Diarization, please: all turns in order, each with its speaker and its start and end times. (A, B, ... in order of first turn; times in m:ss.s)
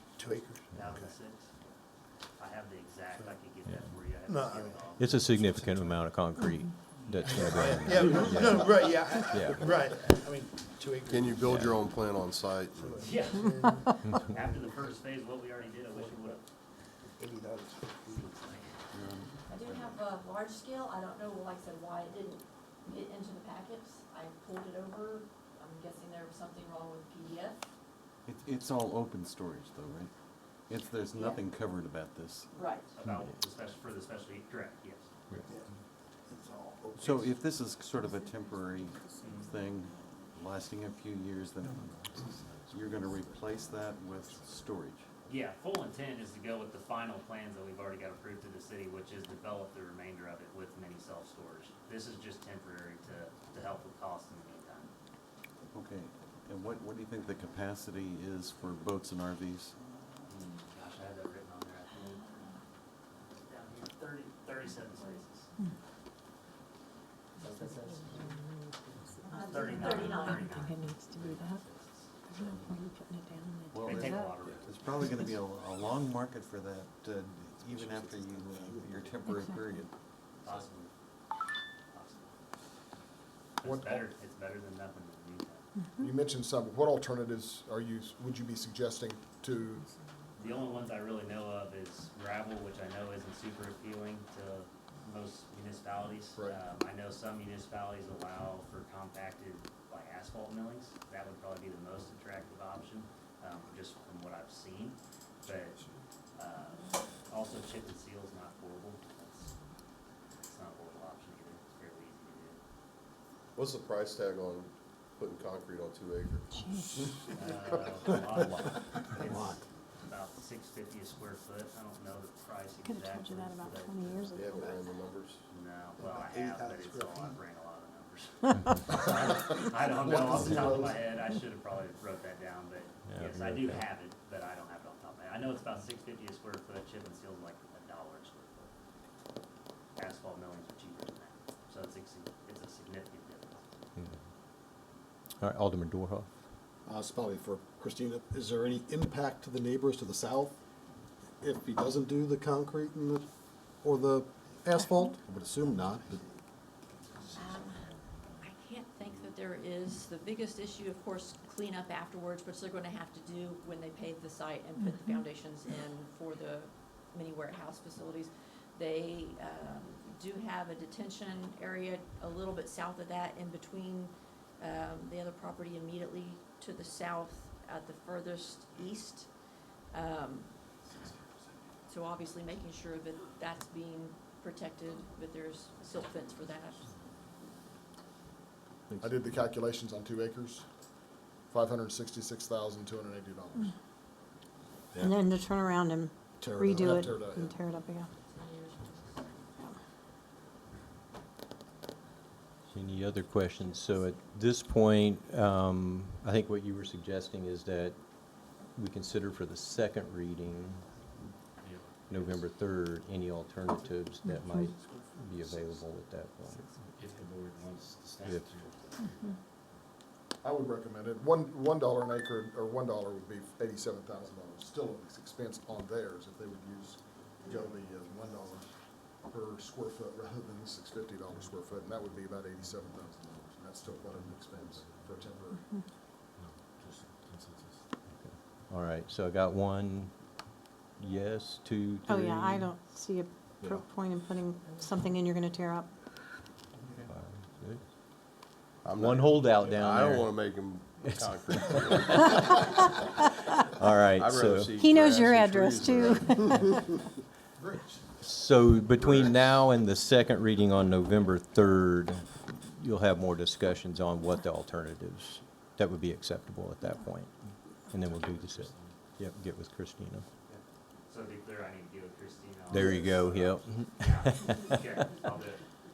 0:00.2-0:01.2 A
0:00.7-0:01.5 B
0:02.4-0:05.4 B
0:04.3-0:05.9 A
0:05.0-0:09.7 C
0:07.0-0:07.4 B
0:07.2-0:11.6 A
0:11.1-0:13.1 D
0:11.5-0:11.8 C
0:12.8-0:15.1 A
0:13.0-0:16.4 B
0:15.9-0:16.4 A
0:17.2-0:18.3 A
0:18.0-0:18.7 B
0:18.9-0:20.0 E
0:19.5-0:27.6 F
0:28.2-0:30.1 E
0:30.7-0:32.6 E
0:31.1-0:31.4 F
0:32.5-0:32.9 F
0:32.9-0:35.1 B
0:36.3-0:37.4 A
0:37.0-0:45.1 E
0:39.2-0:39.5 B
0:45.3-0:54.9 B
0:55.7-0:59.8 E
1:00.3-1:02.4 B
1:03.4-1:05.5 B
1:07.4-1:12.2 B
1:09.3-1:10.5 F
1:10.9-1:11.6 G
1:12.3-1:14.0 G
1:12.4-1:12.7 E
1:13.7-1:20.0 E
1:13.8-1:15.2 B
1:19.2-1:19.6 G
1:20.4-1:20.9 B
1:21.9-1:22.4 B
1:23.6-1:25.7 B
1:23.6-1:24.1 H
1:25.8-1:26.1 G
1:26.0-1:29.9 H
1:30.4-1:45.8 B
1:46.4-1:49.5 B
1:50.5-1:52.6 B
1:53.6-1:56.5 D
1:56.5-1:56.9 G
1:57.3-2:04.2 B
2:02.8-2:04.6 G
2:04.3-2:05.4 D
2:05.5-2:18.7 B
2:06.0-2:07.4 A
2:09.9-2:10.9 A
2:13.1-2:13.8 C
2:20.0-2:23.8 B
2:25.4-2:26.3 C
2:26.9-2:30.5 I
2:31.4-2:33.3 I
2:33.8-2:36.2 I
2:37.3-2:59.3 F
2:44.8-2:45.2 G
2:59.9-3:00.6 F
3:01.9-3:06.9 F
3:08.9-3:09.1 I
3:09.0-3:10.6 H
3:11.5-3:13.7 H
3:15.0-3:18.1 G
3:16.4-3:16.7 I
3:16.6-3:17.6 H
3:18.2-3:19.3 F
3:22.7-3:30.9 C
3:31.6-3:32.5 J
3:32.1-3:36.6 C
3:33.8-3:34.6 J
3:34.2-3:34.7 G
3:37.0-3:39.4 J
3:38.2-3:38.5 C
3:40.4-3:55.6 H
3:54.1-3:55.2 J
3:56.4-3:57.8 J
3:58.1-4:00.2 C
4:01.0-4:02.7 C
4:02.1-4:05.9 G
4:07.1-4:07.8 C
4:08.4-4:10.4 C
4:08.8-4:13.0 D
4:11.0-4:12.8 C
4:13.8-4:14.8 C
4:14.2-4:16.8 D
4:14.8-4:17.0 G
4:17.6-4:18.0 A
4:18.2-4:30.2 C
4:19.0-4:19.6 D
4:27.9-4:29.0 J
4:30.5-4:35.7 B
4:32.7-4:34.8 C